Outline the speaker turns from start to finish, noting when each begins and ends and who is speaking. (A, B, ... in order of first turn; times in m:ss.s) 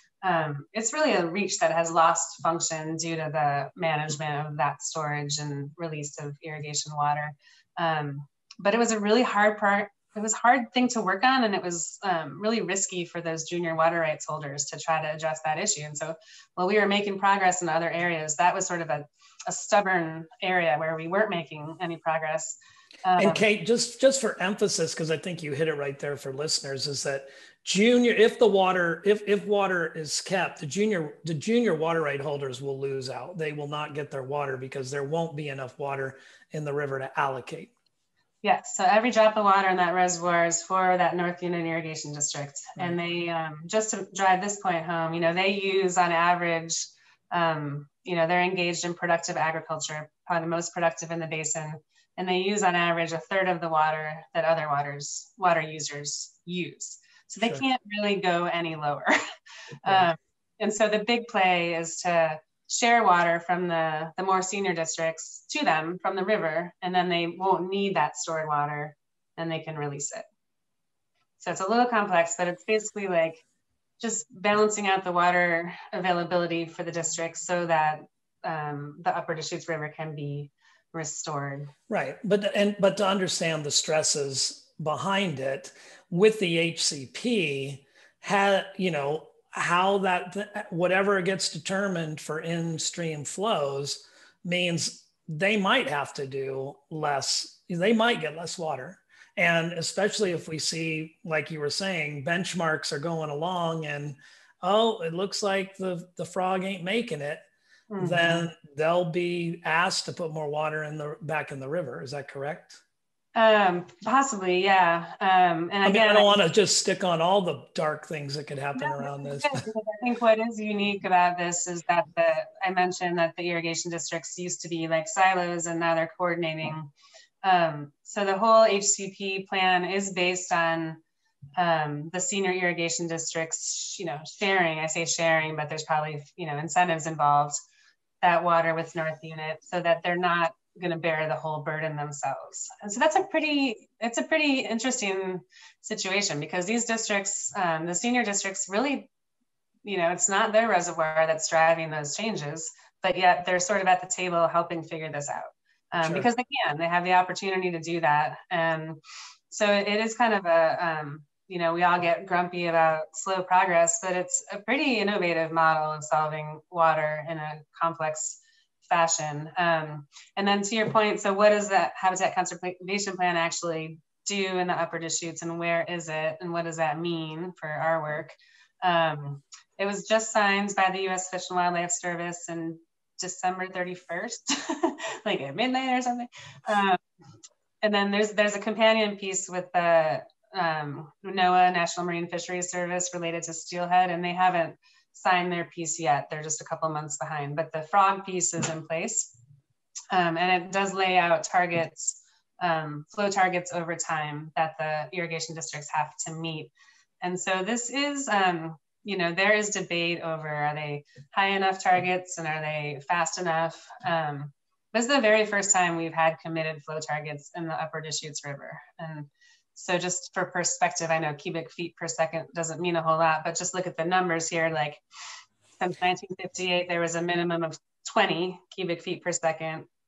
0:00.2-0:23.4 A
0:23.2-0:37.7 B
0:38.4-0:59.2 A
0:59.8-1:10.2 A
1:11.4-1:13.4 A
1:14.0-1:21.7 A
1:21.9-1:47.4 B
1:47.9-1:48.5 A
1:48.0-1:52.8 B
1:53.4-1:56.4 A
1:55.8-1:59.6 B
1:58.8-2:06.9 A
2:07.4-2:11.0 A
2:11.6-2:17.6 A
2:18.2-2:29.1 A
2:29.8-3:07.0 A
2:36.0-2:36.3 B
3:07.8-3:19.3 A
3:20.1-3:45.0 A
3:45.8-3:49.9 A